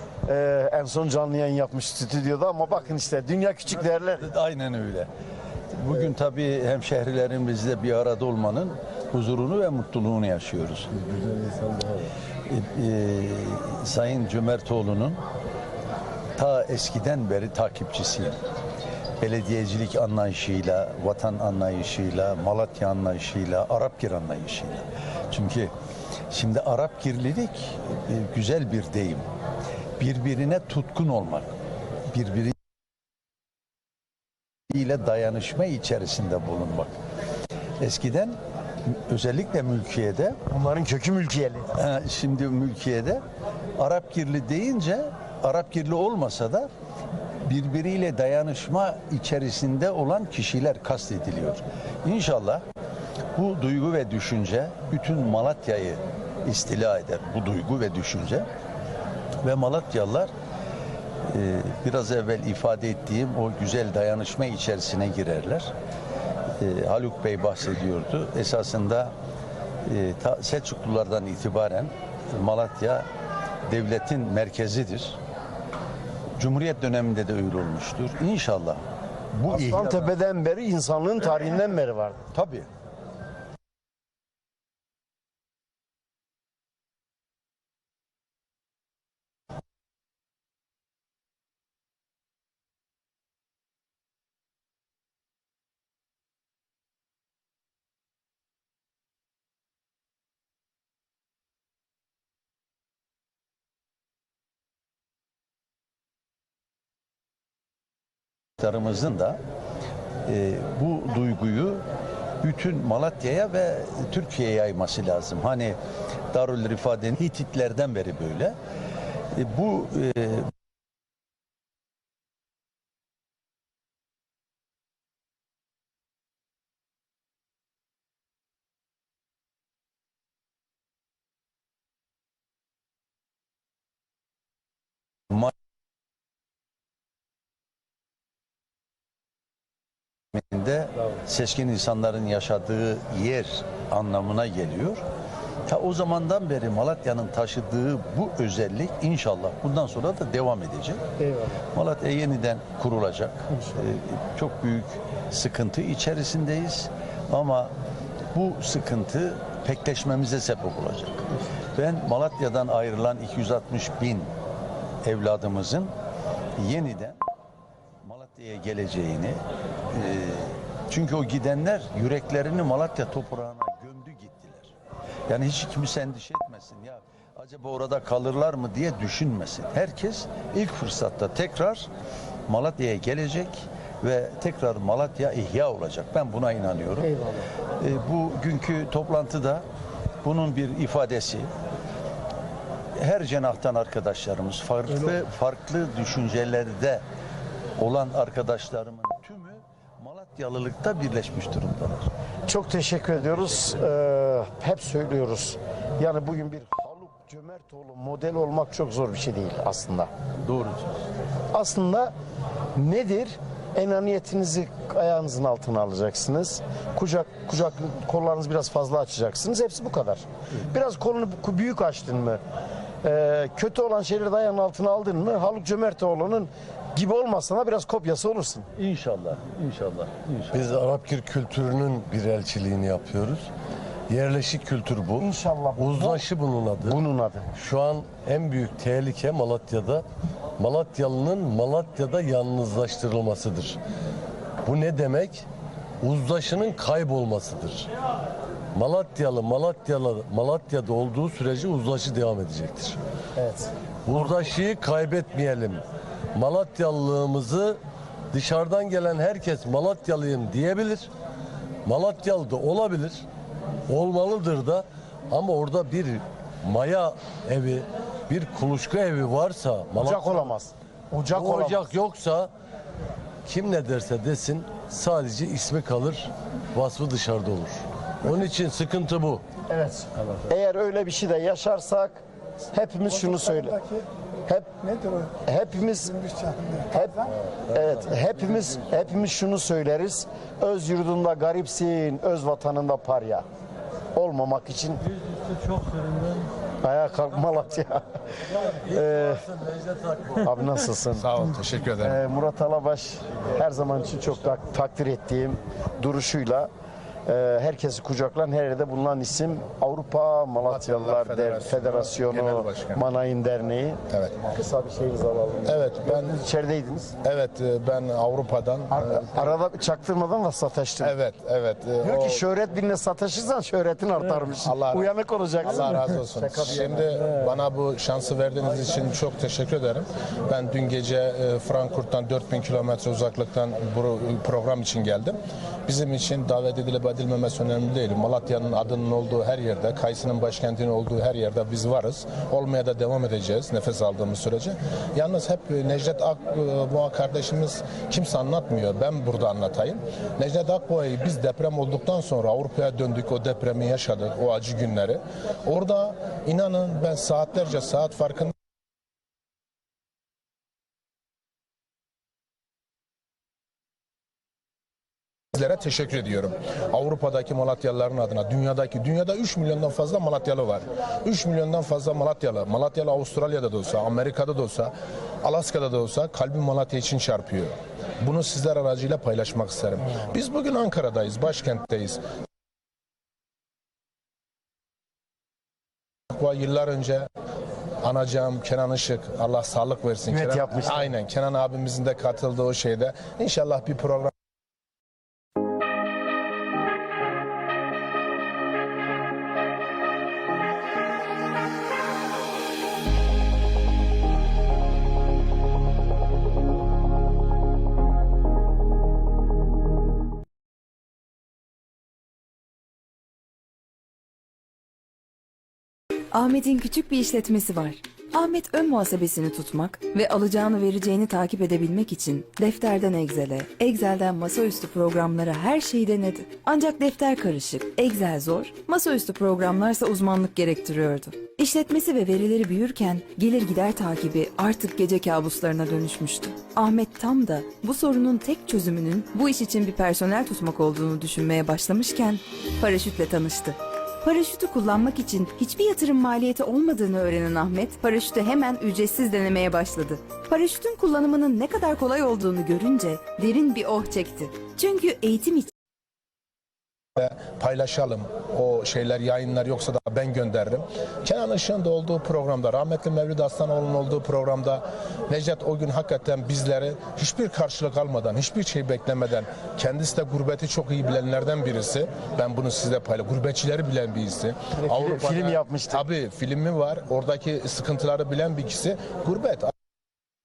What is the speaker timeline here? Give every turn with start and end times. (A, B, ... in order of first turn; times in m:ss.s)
0:00.3-0:04.3 A
0:04.2-0:05.1 B
0:05.8-0:10.9 B
0:11.0-0:12.1 C
0:12.5-0:15.2 B
0:16.4-0:18.4 B
0:19.2-0:25.7 B
0:26.3-0:29.3 B
0:30.0-0:31.5 B
0:32.1-0:32.5 B
0:34.7-0:37.0 B
0:37.8-0:38.4 B
0:38.9-0:40.4 B
0:40.5-0:41.7 A
0:41.7-0:43.2 B
0:43.8-0:46.7 B
0:47.4-0:52.6 B
0:53.4-0:58.5 B
0:59.4-1:00.3 B
1:01.3-1:05.7 B
1:06.6-1:09.1 B
1:09.9-1:13.1 B
1:13.7-1:15.2 B
1:16.4-1:18.8 B
1:19.4-1:20.1 B
1:19.5-1:22.2 A
1:22.3-1:22.7 B
1:48.6-1:49.4 B
1:50.3-1:51.8 B
1:52.4-1:55.8 B
1:56.3-1:58.6 B
1:59.3-2:00.5 B
2:20.4-2:25.0 B
2:25.7-2:31.0 B
2:31.2-2:31.6 A
2:31.8-2:37.7 B
2:38.3-2:44.3 B
2:45.0-2:45.9 B
2:46.6-2:47.2 B
2:48.0-2:54.7 B
2:55.3-3:01.9 B
3:02.5-3:07.2 B
3:07.8-3:09.7 B
3:10.2-3:11.5 B
3:13.0-3:17.0 B
3:17.8-3:22.1 B
3:22.5-3:30.1 A
3:30.4-3:31.0 B
3:31.5-3:32.1 A
3:32.8-3:42.4 A
3:43.0-3:48.7 A
3:48.8-3:50.6 B
3:50.5-3:53.5 C
3:54.1-3:57.0 C
3:55.2-3:56.3 A
3:56.8-3:57.5 A
3:57.6-4:00.0 C
4:00.6-4:03.8 C
4:04.6-4:05.4 C
4:06.0-4:07.9 C
4:08.7-4:13.0 C
4:13.4-4:13.7 A
4:14.1-4:17.8 C
4:18.3-4:21.1 C
4:21.8-4:23.2 C
4:23.9-4:30.5 C
4:30.0-4:31.9 A
4:31.3-4:32.5 C
4:33.5-4:39.4 C
4:39.7-4:42.2 A
4:42.7-4:43.8 A
4:44.5-4:44.7 A
4:45.3-4:53.4 A
4:54.2-4:55.0 A
4:55.5-4:56.4 C
4:56.8-4:58.0 A
4:58.8-4:59.5 A
4:59.6-5:00.4 C
5:00.4-5:01.3 A
5:01.2-5:02.2 D
5:02.0-5:06.7 A
5:07.3-5:17.1 A
5:10.6-5:13.0 D
5:14.1-5:14.4 D
5:15.7-5:16.3 D
5:17.2-5:19.5 D
5:18.9-5:21.2 A
5:21.0-5:22.4 D
5:22.0-5:27.1 A
5:24.6-5:25.1 D
5:25.6-5:58.5 D
6:05.6-6:14.9 D
6:15.4-6:22.2 D
6:26.3-6:27.3 D
6:28.0-6:34.3 D
6:30.3-6:31.1 A
6:56.3-7:35.7 E
7:37.2-7:59.7 D
7:54.8-7:56.0 A